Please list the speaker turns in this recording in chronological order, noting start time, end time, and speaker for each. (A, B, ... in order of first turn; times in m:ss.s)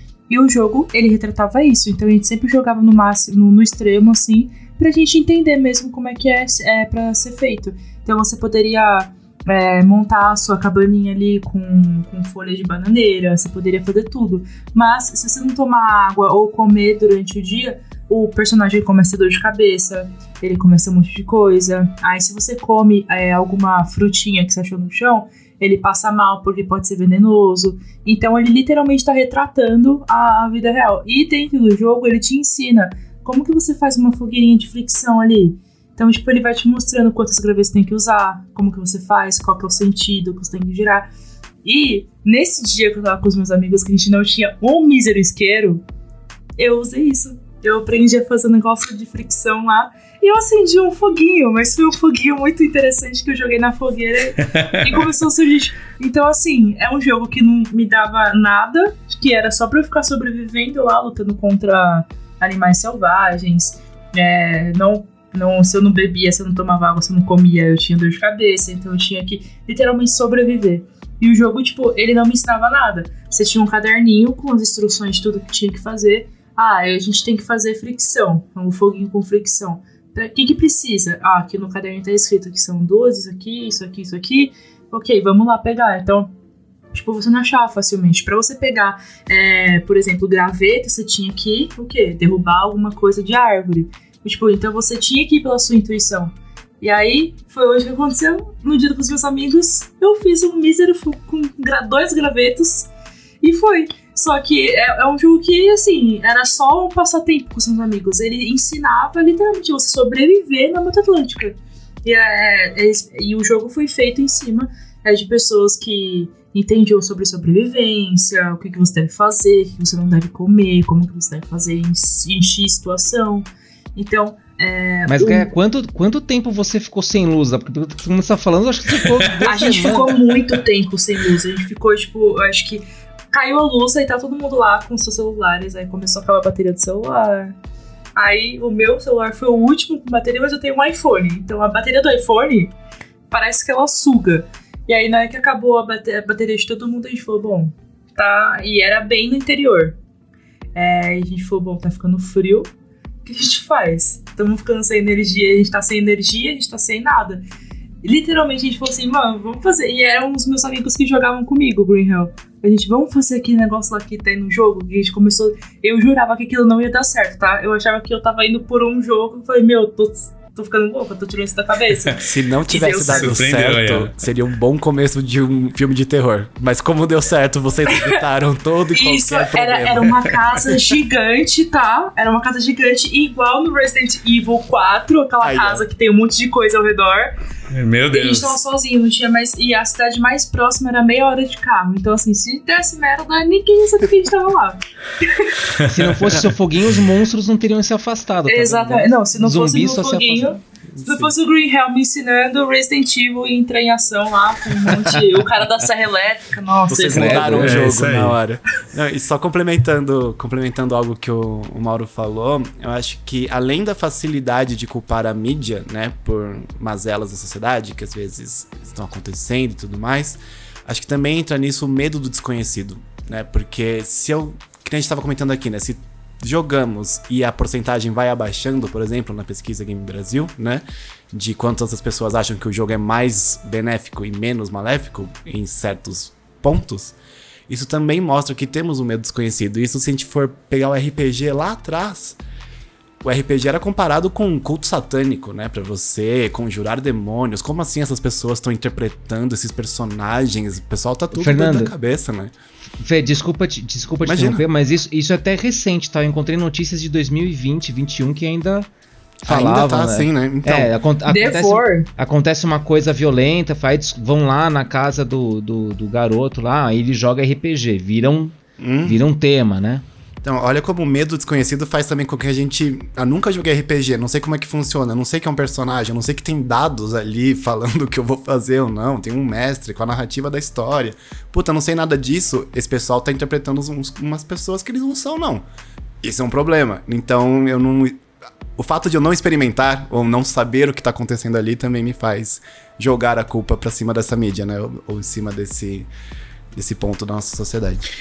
0:00.3-0:41.1 A
0:41.6-0:45.8 A
0:46.6-1:26.3 A
1:26.9-2:05.5 A
2:05.1-2:10.2 B
2:09.4-2:17.5 A
2:18.2-2:22.7 A
2:23.3-2:30.0 A
2:30.7-2:32.7 A
2:33.2-2:37.4 A
2:38.0-2:53.3 A
2:52.2-3:00.4 C
2:53.0-2:54.1 D
2:58.9-3:07.3 A
3:05.4-3:05.8 C
3:07.7-3:08.6 D
3:08.1-3:15.6 A
3:15.8-3:20.6 B
3:15.9-3:16.4 D
3:18.5-3:27.7 A
3:20.9-3:21.3 C
3:26.9-3:57.2 C
3:27.1-3:27.8 B
3:27.3-3:28.4 D
3:57.7-4:02.4 C
4:03.2-4:12.5 C
4:11.3-4:11.9 B
4:13.0-4:18.9 B
4:14.2-4:14.6 C
4:19.4-4:30.0 B
4:19.4-4:20.9 C
4:21.3-4:22.1 A
4:28.8-4:29.2 C
4:30.4-4:45.6 C
4:46.2-4:48.2 C
4:48.8-4:56.1 C
4:56.7-4:58.0 C